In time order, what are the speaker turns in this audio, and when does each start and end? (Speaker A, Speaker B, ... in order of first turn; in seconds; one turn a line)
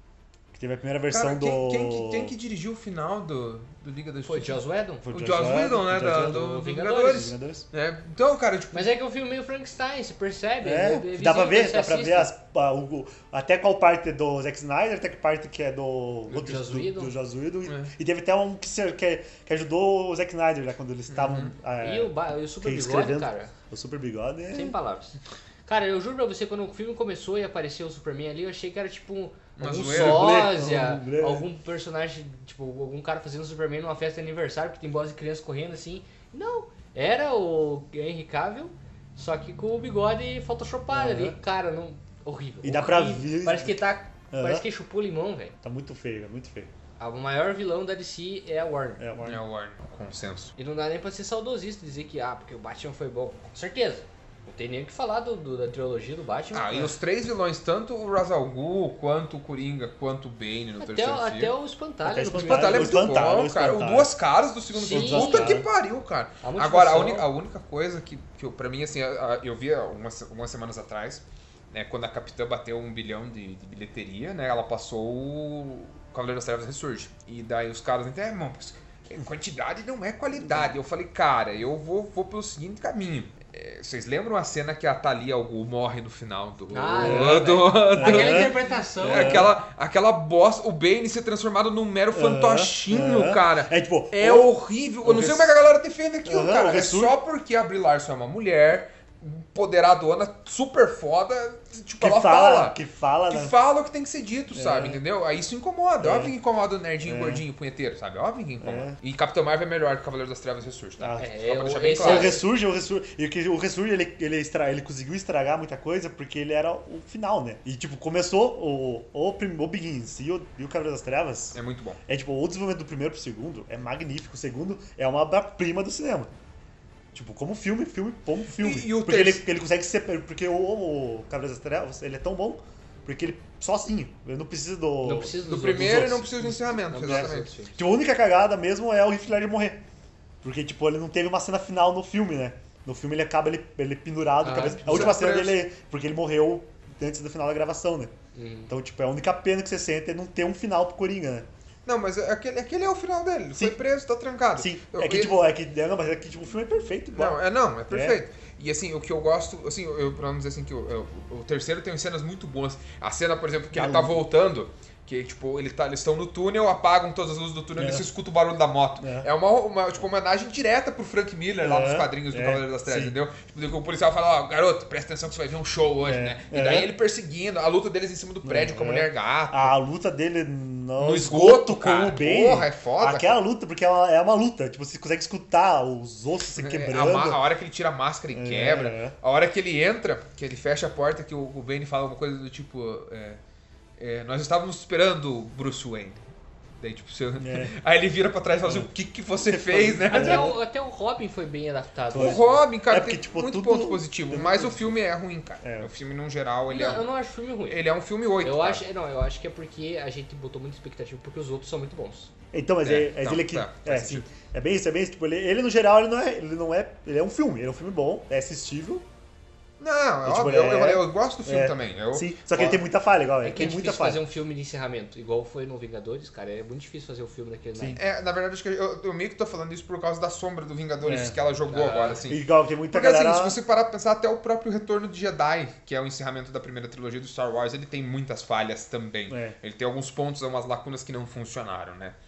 Speaker A: 0.5-2.3
Speaker B: 1.1-8.9
Speaker C: 4.2-5.1
Speaker A: 5.0-7.7
Speaker C: 6.0-7.3
Speaker C: 8.7-12.3
Speaker A: 10.6-24.8
Speaker C: 16.3-17.1
Speaker B: 17.6-17.9
Speaker B: 21.1-21.5
Speaker C: 21.8-23.5
Speaker C: 24.5-45.5
Speaker B: 29.6-30.4
Speaker A: 29.9-31.5
Speaker A: 40.9-41.4
Speaker A: 42.6-44.6
Speaker A: 45.6-46.7
Speaker C: 47.0-49.0
Speaker A: 49.0-49.4
Speaker B: 49.2-50.5
Speaker C: 50.6-56.9
Speaker B: 56.5-61.5
Speaker C: 60.8-63.1
Speaker A: 62.0-64.1
Speaker B: 62.3-102.8
Speaker C: 64.7-65.6
Speaker A: 64.9-65.7
Speaker C: 66.4-67.3
Speaker C: 86.7-89.5
Speaker A: 87.0-89.5
Speaker A: 92.1-95.6
Speaker A: 96.2-97.2
Speaker A: 102.0-103.5
Speaker B: 103.3-112.3
Speaker A: 104.5-105.0
Speaker A: 106.0-106.3
Speaker A: 107.0-107.4
Speaker A: 108.6-109.0
Speaker A: 111.0-111.3
Speaker C: 111.2-112.5
Speaker A: 111.9-126.3
Speaker B: 121.5-122.0
Speaker A: 127.1-139.8
Speaker B: 128.6-129.4
Speaker C: 135.0-137.8
Speaker B: 135.4-137.5
Speaker A: 140.4-148.1
Speaker C: 144.4-145.2
Speaker B: 144.8-145.6
Speaker C: 148.3-148.7
Speaker A: 148.7-151.5
Speaker B: 151.8-155.4
Speaker A: 154.6-158.2
Speaker B: 157.1-179.7
Speaker A: 163.7-164.2
Speaker A: 167.8-168.1
Speaker A: 169.0-169.3
Speaker A: 171.6-173.1
Speaker A: 176.0-176.9
Speaker A: 178.4-187.4
Speaker B: 181.0-183.4
Speaker B: 186.6-193.4
Speaker A: 188.3-189.1
Speaker B: 194.0-196.2
Speaker B: 196.8-200.6
Speaker A: 197.4-197.7
Speaker A: 198.6-200.6
Speaker C: 200.1-202.6
Speaker A: 202.1-205.0
Speaker B: 202.1-207.1
Speaker A: 205.6-205.9
Speaker C: 206.7-207.8
Speaker B: 207.7-208.8
Speaker C: 208.4-212.3
Speaker A: 212.5-219.0
Speaker B: 212.8-214.2
Speaker B: 219.8-222.8
Speaker A: 220.2-224.2
Speaker C: 223.4-228.0
Speaker B: 228.0-242.2
Speaker A: 231.0-231.4
Speaker C: 231.7-232.2
Speaker A: 232.3-233.6
Speaker A: 239.3-239.6